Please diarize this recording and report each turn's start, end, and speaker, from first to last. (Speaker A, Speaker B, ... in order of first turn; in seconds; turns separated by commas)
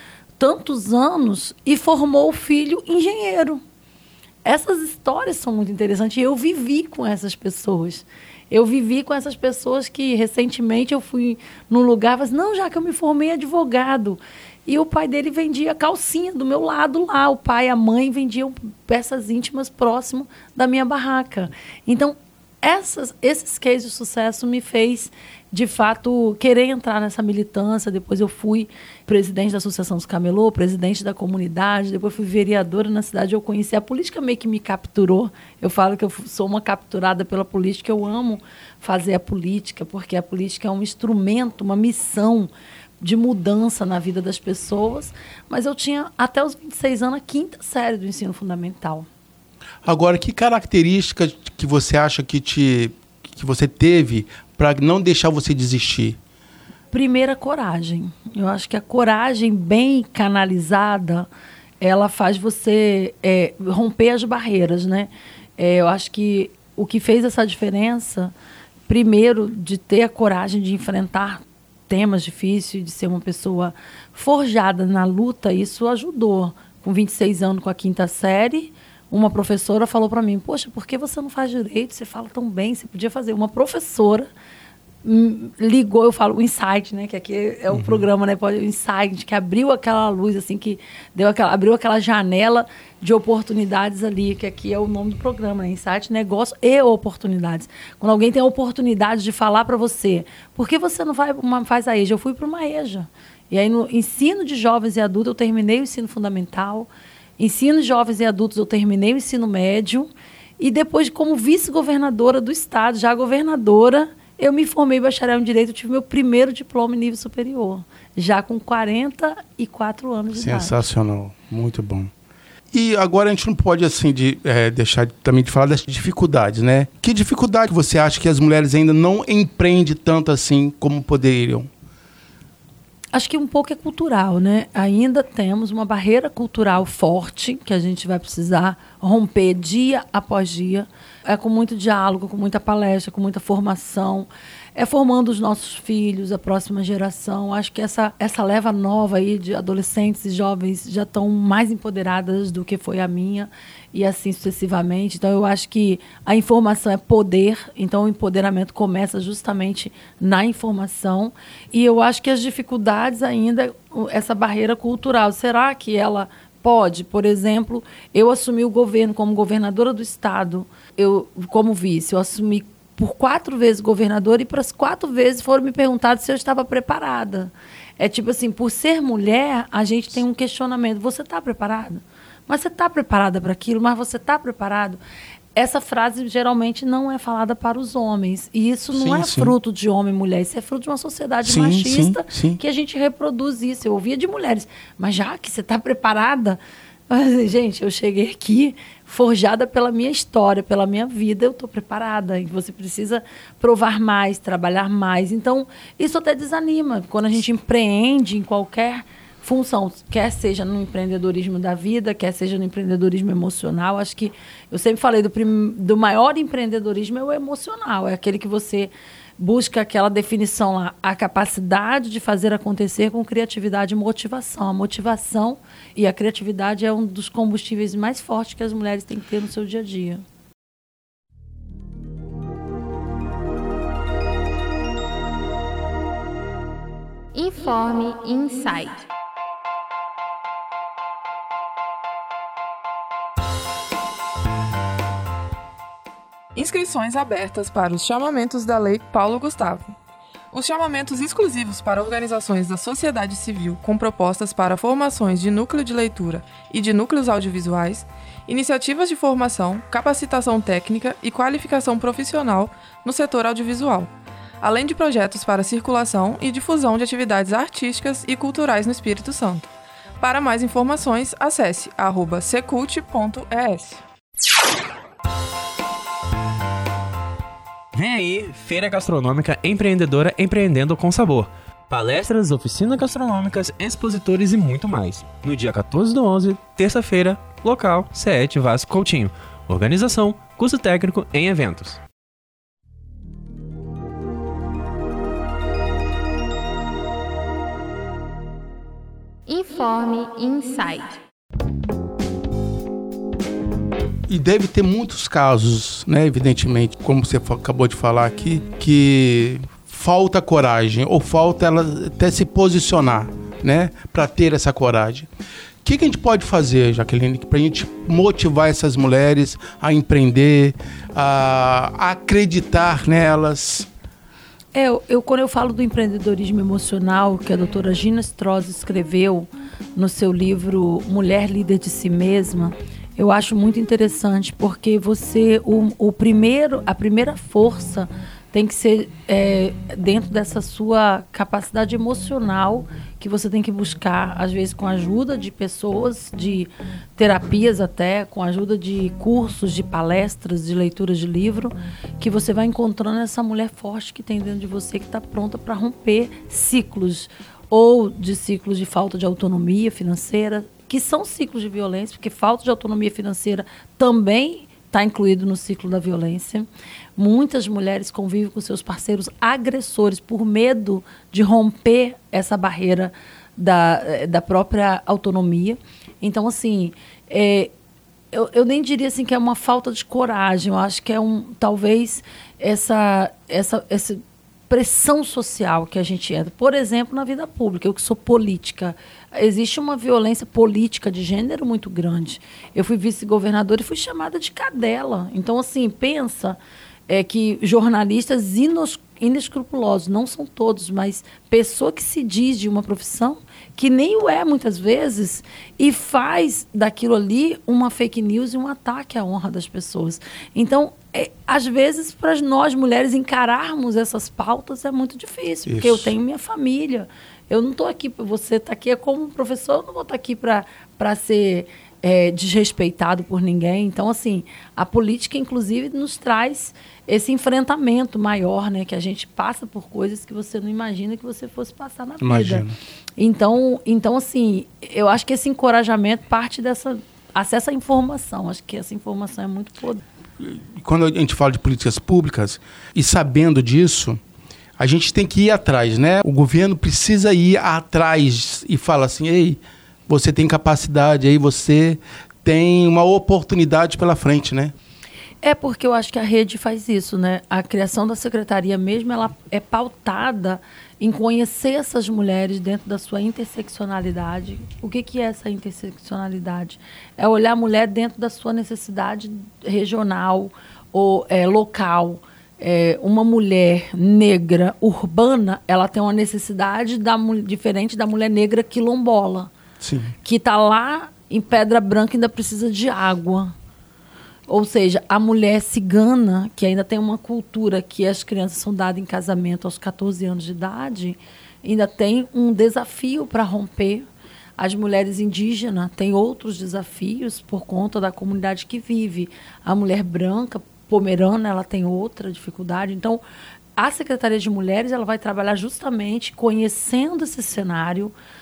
Speaker A: 0.4-3.6, Speaker A: 4.4-42.5, Speaker A: 43.0-49.1, Speaker B: 49.8-56.2, Speaker A: 56.9-61.3, Speaker A: 61.8-68.3, Speaker A: 68.9-84.3, Speaker A: 85.0-110.1, Speaker B: 87.7-88.1, Speaker A: 110.6-120.8, Speaker B: 120.3-122.1, Speaker B: 122.7-131.7, Speaker A: 133.1-185.0, Speaker A: 185.5-230.2, Speaker B: 188.9-189.5, Speaker B: 191.4-192.6, Speaker C: 237.3-239.0, Speaker D: 246.5-249.9, Speaker D: 250.5-274.0, Speaker E: 277.9-292.0, Speaker C: 299.5-301.2, Speaker B: 304.3-315.3, Speaker B: 315.8-323.9, Speaker A: 324.7-377.7, Speaker A: 378.3-396.6, Speaker A: 397.1-432.6, Speaker B: 415.6-416.1, Speaker B: 432.2-432.7, Speaker A: 433.2-440.0, Speaker B: 440.4-444.2, Speaker B: 444.8-454.7, Speaker A: 455.4-479.5, Speaker B: 479.8-480.1, Speaker A: 480.2-483.5, Speaker A: 484.5-494.1, Speaker A: 494.6-503.2, Speaker A: 503.8-508.1